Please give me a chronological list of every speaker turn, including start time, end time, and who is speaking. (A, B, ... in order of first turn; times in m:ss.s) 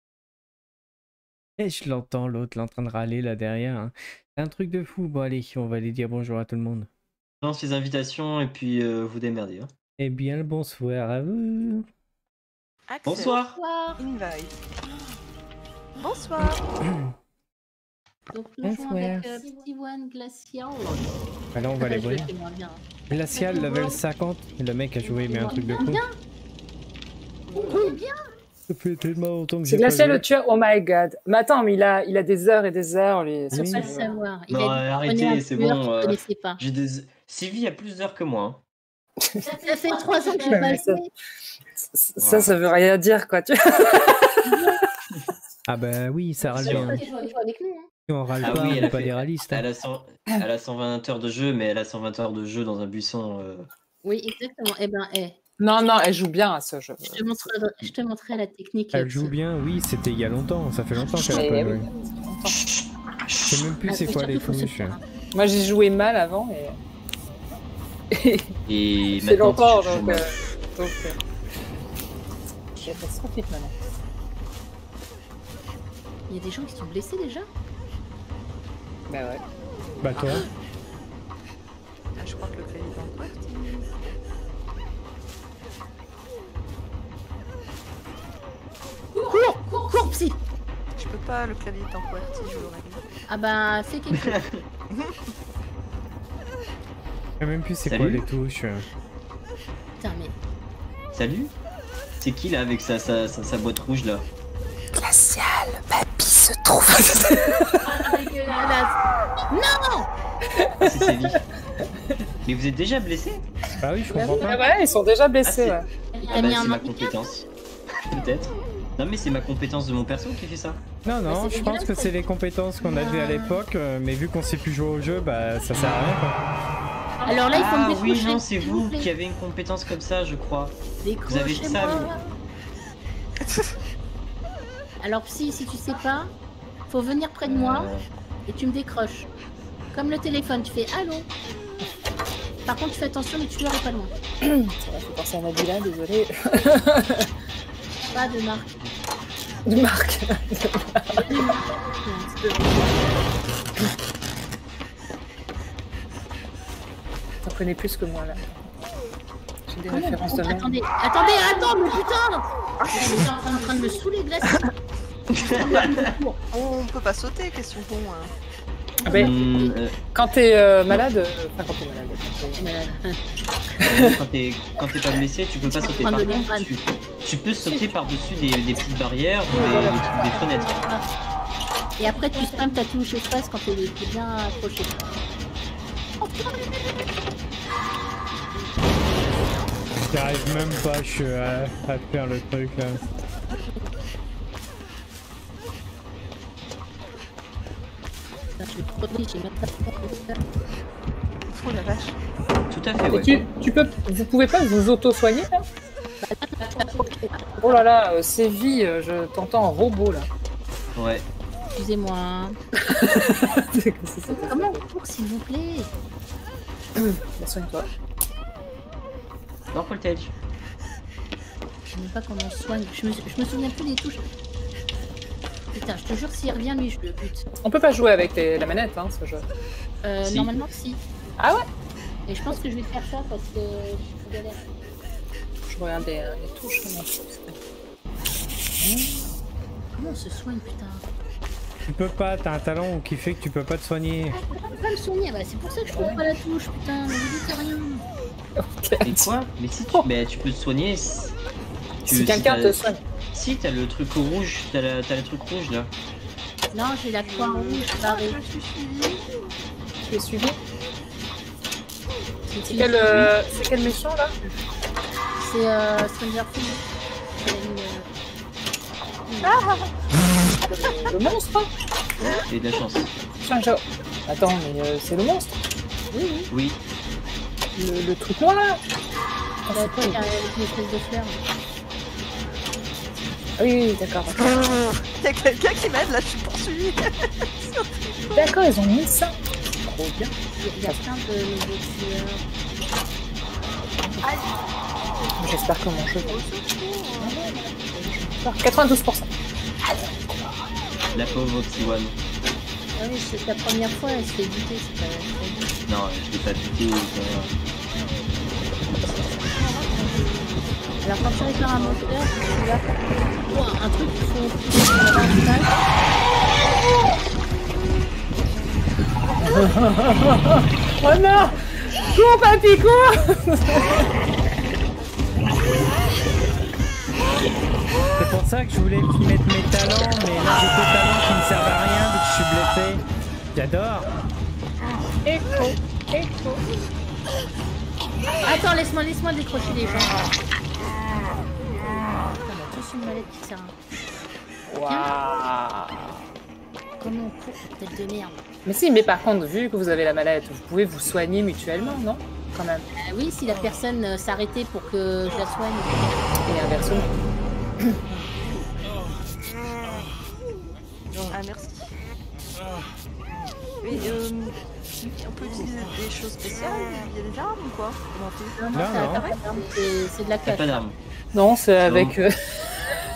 0:01.6-0:06.9 A
0:07.4-0:09.7 B
0:10.0-0:11.9 A
0:12.9-0:13.4 C
0:13.0-0:13.6 B
0:13.2-0:14.0 D
0:14.0-0:14.6 C
0:16.0-0:16.6 C
0:18.3-0:21.1 D
0:18.7-0:19.4 E
0:21.5-0:22.3 A
0:21.8-0:24.0 D
0:23.1-0:26.0 A
0:25.0-0:26.2 D
0:27.5-0:27.9 C
0:27.5-0:28.2 D
0:28.7-0:30.2 A
0:29.6-0:34.2 E
0:33.5-0:33.9 A
0:33.6-0:36.6 D
0:34.5-0:38.6 B
0:39.2-0:41.0 E
0:39.4-0:41.1 D
0:41.8-0:44.6 E
0:42.2-0:42.5 B
0:44.4-0:44.8 D
0:45.7-0:47.0 A
0:46.4-0:47.9 D
0:46.6-0:47.0 B
0:48.1-0:49.6 A
0:48.4-0:53.7 B
0:54.0-0:55.4 D
0:55.6-0:57.2 E
0:57.0-0:59.4 D
0:58.9-1:01.9 A
1:01.2-1:02.6 E
1:02.8-1:03.6 B
1:03.4-1:05.0 A
1:03.8-1:05.0 D
1:05.3-1:06.8 E
1:08.1-1:08.5 E
1:08.7-1:10.2 B
1:09.1-1:11.2 E
1:12.8-1:13.7 E
1:16.3-1:17.5 D
1:19.1-1:19.4 E
1:20.0-1:20.4 A
1:20.2-1:20.5 E
1:22.2-1:23.8 C
1:29.2-1:30.4 D
1:31.0-1:33.0 C
1:33.3-1:34.4 D
1:34.1-1:34.7 B
1:34.9-1:35.3 C
1:37.4-1:38.9 A
1:37.8-1:38.2 B
1:40.0-1:40.3 D
1:41.1-1:41.5 B
1:42.2-1:44.3 B
1:44.9-1:47.9 E
1:47.8-1:49.0 D
1:49.5-1:50.1 D
1:50.6-1:51.4 E
1:50.8-1:51.4 B
1:52.5-1:53.4 B
1:53.8-1:54.7 A
1:54.1-1:54.4 D
1:54.2-1:55.8 E
1:55.4-1:55.8 B
1:56.1-1:57.2 D
1:56.3-1:57.5 B
1:58.0-2:00.8 B
2:01.0-2:06.4 A
2:01.3-2:02.2 D
2:03.0-2:03.2 D
2:07.2-2:09.1 D
2:07.5-2:12.1 B
2:11.0-2:12.3 D
2:15.0-2:16.3 D
2:16.9-2:17.9 D
2:17.4-2:18.1 B
2:18.5-2:19.3 D
2:19.9-2:21.3 D
2:22.7-2:24.1 D
2:24.4-2:27.3 E
2:28.1-2:28.7 D
2:29.7-2:31.5 E
2:31.1-2:33.1 D
2:37.4-2:38.6 E
2:39.7-2:40.7 E
2:39.9-2:44.7 D
2:42.8-2:43.3 C
2:45.3-2:45.6 C
2:45.4-2:46.4 D
2:45.4-2:46.1 B
2:46.5-2:48.3 C
2:49.1-2:49.4 E
2:49.1-2:49.8 D
2:49.1-2:50.0 B
2:50.0-2:52.6 E
2:52.6-2:53.2 D
2:53.8-3:00.8 B
2:55.6-2:56.7 D
2:59.5-3:01.1 D
3:02.0-3:05.2 D
3:06.2-3:06.6 D
3:10.1-3:13.0 A
3:18.6-3:20.4 D
3:21.5-3:22.2 C
3:22.7-3:23.4 B
3:23.1-3:25.6 E
3:26.2-3:27.8 D
3:26.8-3:30.3 E
3:31.0-3:31.3 B
3:31.7-3:32.6 D
3:32.9-3:34.8 E
3:34.3-3:35.9 D
3:37.0-3:37.9 E
3:39.7-3:40.3 B
3:41.9-3:44.3 D
3:45.7-3:47.4 D
3:47.6-3:49.5 E
3:50.0-3:51.0 D
3:50.2-3:50.6 B
3:51.4-3:51.6 E
3:52.3-3:54.6 D
3:55.7-3:57.6 E
3:58.8-3:59.3 E
4:00.0-4:01.1 D
4:01.9-4:04.4 A
4:04.4-4:08.0 D
4:05.9-4:06.2 E
4:08.6-4:09.3 E
4:09.0-4:11.3 B
4:12.1-4:13.0 E
4:12.1-4:15.9 B
4:16.7-4:18.4 D
4:17.2-4:19.3 C
4:20.1-4:20.6 E
4:22.5-4:23.3 D
4:22.7-4:24.4 E
4:25.4-4:26.8 D
4:27.4-4:28.1 D
4:29.3-4:29.6 D
4:29.4-4:29.9 C
4:30.7-4:31.7 E
4:32.5-4:33.1 B
4:33.4-4:35.6 E
4:36.1-4:36.5 D
4:36.5-4:36.8 B
4:37.8-4:38.8 E
4:39.7-4:40.2 E
4:39.7-4:41.4 D
4:43.6-4:44.8 E
4:44.5-4:48.5 C
4:48.3-4:51.1 E
4:50.6-4:52.4 D
4:54.0-4:54.3 E
4:54.2-4:54.5 C
4:55.4-4:56.4 E
4:56.2-4:57.4 C
4:57.2-4:58.4 D
4:58.1-4:59.3 E
4:59.8-5:00.5 E
5:01.1-5:02.2 B
5:03.0-5:05.7 D
5:05.9-5:07.5 B
5:09.4-5:10.6 C
5:11.0-5:12.9 D
5:11.8-5:12.1 C
5:13.4-5:15.7 D
5:19.4-5:24.0 E
5:28.2-5:34.1 A
5:35.3-5:36.5 E
5:38.4-5:40.3 D
5:42.2-5:43.8 D
5:44.7-5:46.2 E
5:44.9-5:45.1 D
5:47.0-5:48.4 D
5:48.6-5:52.9 E
5:53.0-5:56.2 D
5:56.4-5:57.2 E
6:01.3-6:01.9 C
6:03.8-6:09.4 C
6:08.6-6:10.8 D
6:08.7-6:09.3 A
6:10.5-6:11.0 B
6:11.3-6:12.5 E
6:11.8-6:12.1 B